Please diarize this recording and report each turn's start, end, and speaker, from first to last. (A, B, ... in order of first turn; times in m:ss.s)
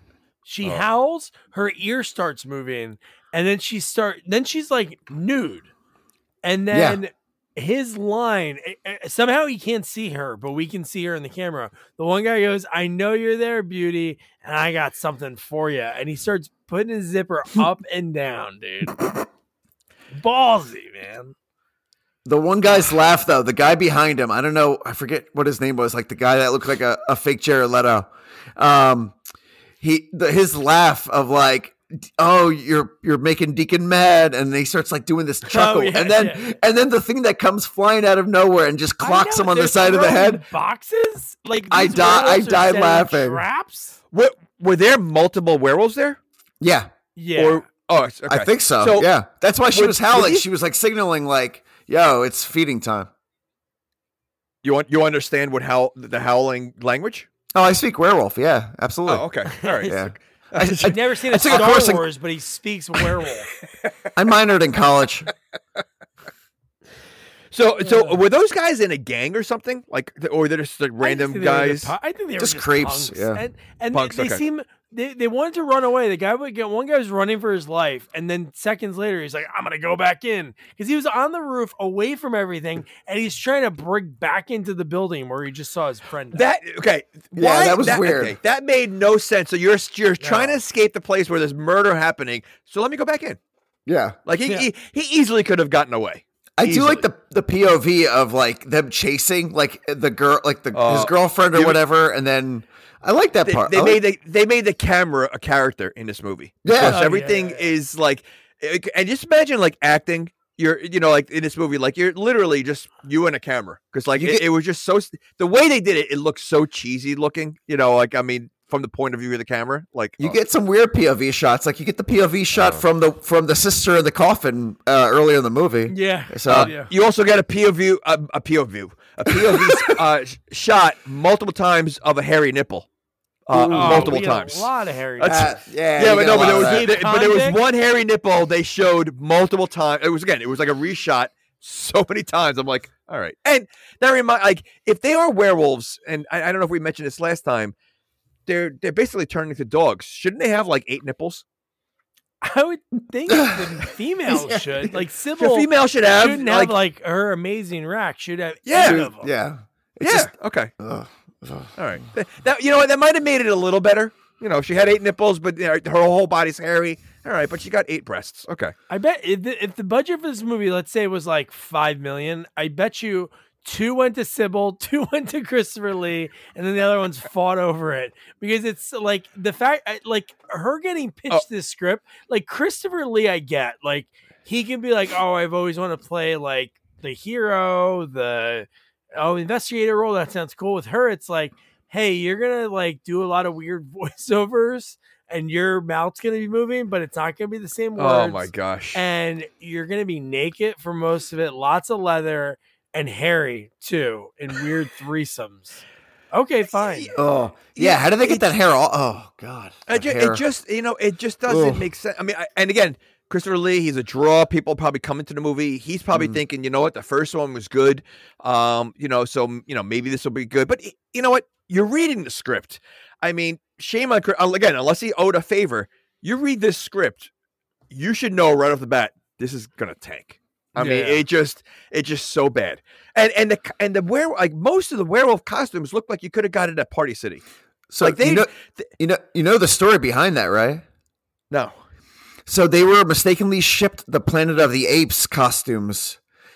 0:00.4-0:05.7 A
0:06.4-0:19.3 A
0:06.7-0:07.0 B
0:20.1-0:21.3 A
0:22.2-0:29.2 B
0:29.8-0:40.4 B
0:35.5-0:36.6 A
0:39.0-0:44.0 A
0:41.7-0:43.4 B
0:44.1-0:46.2 C
0:46.6-0:46.9 B
0:47.2-0:47.6 A
0:47.4-0:49.1 C
0:48.3-0:53.1 B
0:49.7-0:50.4 C
0:54.6-0:57.3 C
0:57.5-0:59.3 B
0:59.1-1:01.7 C
0:59.6-1:00.0 A
0:59.9-1:02.1 B
1:00.9-1:03.5 A
1:03.8-1:04.1 C
1:04.2-1:05.3 B
1:07.5-1:11.9 C
1:07.8-1:08.2 A
1:11.0-1:26.4 A
1:12.4-1:13.4 B
1:13.9-1:14.4 C
1:26.3-1:33.4 C
1:27.4-1:28.4 B
1:30.2-1:30.6 A
1:33.9-1:34.2 B
1:34.3-1:37.0 C
1:36.6-1:44.0 B
1:40.7-1:41.8 C
1:43.4-2:00.4 C
1:46.6-1:47.1 B
1:46.9-1:47.7 A
1:54.2-1:54.4 B
2:00.2-2:06.7 B
2:02.5-2:02.8 C
2:05.9-2:06.9 A
2:06.5-2:12.9 C
2:09.3-2:10.0 B
2:13.5-2:14.7 C
2:13.5-2:14.2 B
2:13.7-2:15.7 A
2:15.2-2:27.7 C
2:15.3-2:16.9 B
2:16.4-2:17.6 A
2:28.5-2:31.4 C
2:32.4-2:39.3 A
2:33.3-2:33.7 B
2:34.3-2:35.0 B
2:35.4-2:36.8 C
2:38.7-2:39.1 C
2:38.8-2:41.8 B
2:40.0-2:40.7 C
2:41.8-2:48.7 C
2:48.9-3:27.1 A
3:18.0-3:19.0 C
3:27.0-3:28.5 C
3:27.2-3:30.4 B
3:29.9-3:47.3 C
3:31.5-3:31.8 B
3:36.1-3:36.4 B
3:47.9-3:57.4 C
3:50.8-3:51.2 A
3:57.9-4:00.8 B
3:58.0-3:58.9 C
4:01.5-4:01.8 C
4:02.5-4:06.2 B